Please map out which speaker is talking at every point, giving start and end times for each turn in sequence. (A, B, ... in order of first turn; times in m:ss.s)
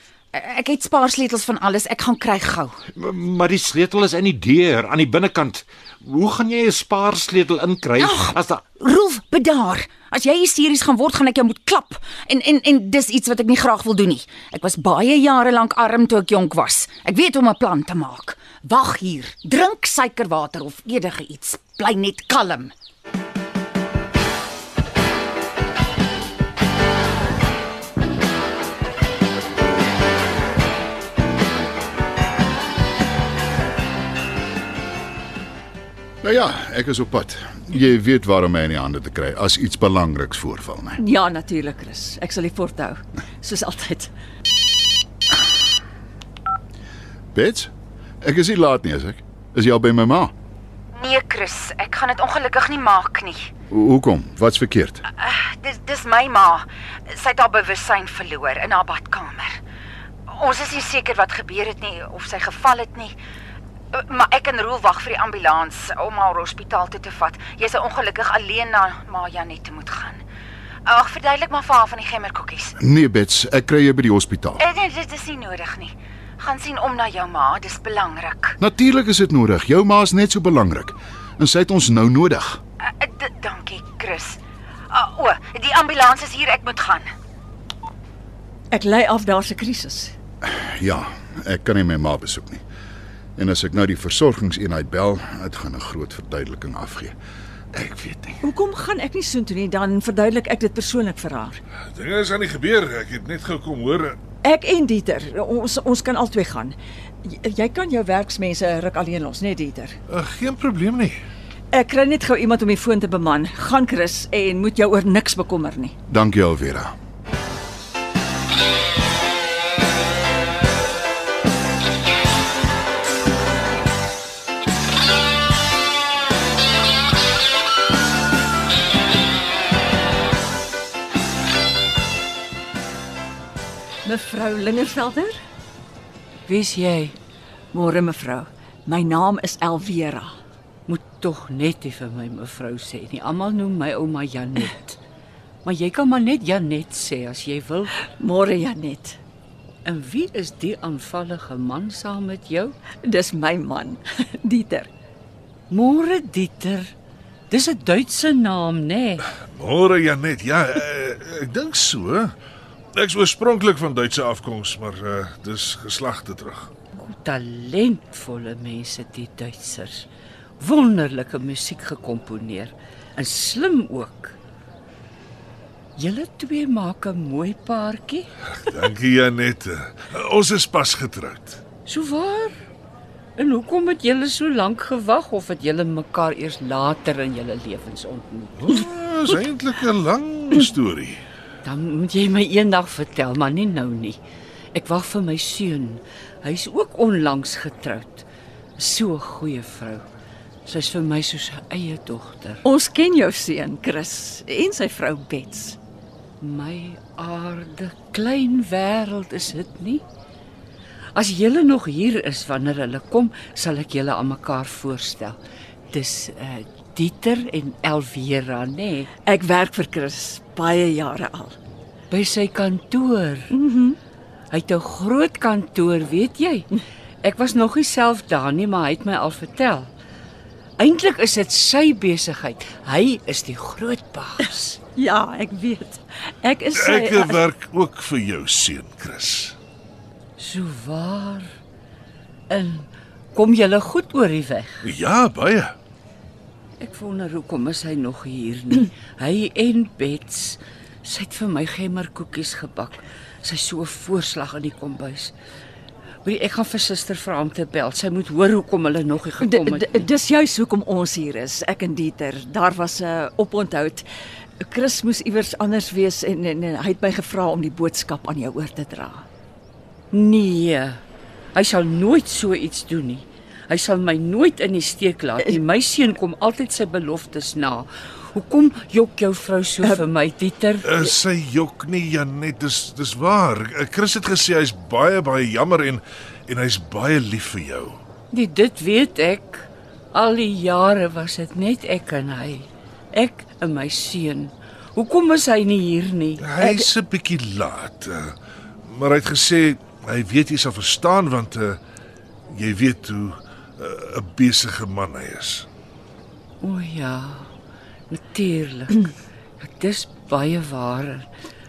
0:00.3-0:02.8 A
0:02.9-0:08.6 B
0:08.0-0:22.7 A
0:36.2-0:41.0 C
0:41.0-0:44.1 D
0:47.3-0:47.7 C
0:48.2-0:50.3 C
0:50.9-0:53.5 A
0:53.7-0:55.0 C
0:55.1-0:59.6 A
1:00.3-1:03.1 A
1:03.9-1:10.2 A
1:10.9-1:12.8 A
1:12.8-1:14.6 C
1:14.6-1:18.6 A
1:18.6-1:22.6 C
1:22.8-1:24.4 A
1:24.9-1:27.1 A
1:28.7-1:30.1 D
1:30.4-1:32.6 C
1:33.4-1:37.2 C
1:37.7-1:38.4 C
1:38.4-1:41.6 D
1:41.9-1:44.2 E
1:44.4-1:50.0 D
1:50.1-1:51.2 E
1:51.7-1:55.9 D
1:56.1-1:56.9 C
2:14.0-2:15.3 D
2:16.5-2:17.2 F
2:17.7-2:20.3 D
2:20.9-2:25.0 F
2:25.6-2:28.0 F
2:28.2-2:29.2 D
2:29.8-2:32.8 F
2:33.0-2:34.9 D
2:35.7-2:36.9 F
2:37.5-2:39.3 F
2:39.5-2:42.3 E
2:43.0-2:46.7 E
2:46.9-2:50.1 F
2:50.6-2:54.4 F
2:56.0-2:58.3 F
2:58.5-3:01.6 E
3:01.9-3:02.6 F
3:03.4-3:08.7 F
3:08.6-3:11.2 E
3:11.6-3:14.2 F
3:14.7-3:18.3 F
3:18.8-3:20.0 F
3:20.6-3:22.6 F
3:22.6-3:25.8 D
3:26.4-3:30.0 F
3:31.2-3:35.4 F
3:35.9-3:39.1 F
3:39.2-3:41.6 D
3:42.1-3:43.5 F
3:43.5-3:44.0 D
3:44.5-3:46.7 F
3:47.2-3:49.9 F
3:50.8-3:54.8 F
3:55.0-3:57.4 D
3:56.7-3:59.6 E
4:00.4-4:01.5 F
4:02.5-4:04.8 F
4:04.8-4:05.8 E
4:06.8-4:15.4 F
4:16.2-4:20.1 F
4:19.4-4:24.1 D
4:24.6-4:29.2 D
4:30.1-4:31.0 F
4:31.6-4:41.0 F
4:40.9-4:48.0 E
4:48.3-4:56.4 F
4:56.4-4:58.4 E
4:56.6-4:56.9 D
4:58.9-5:01.8 E
5:02.5-5:05.7 E
5:06.6-5:07.5 F
5:08.1-5:11.3 F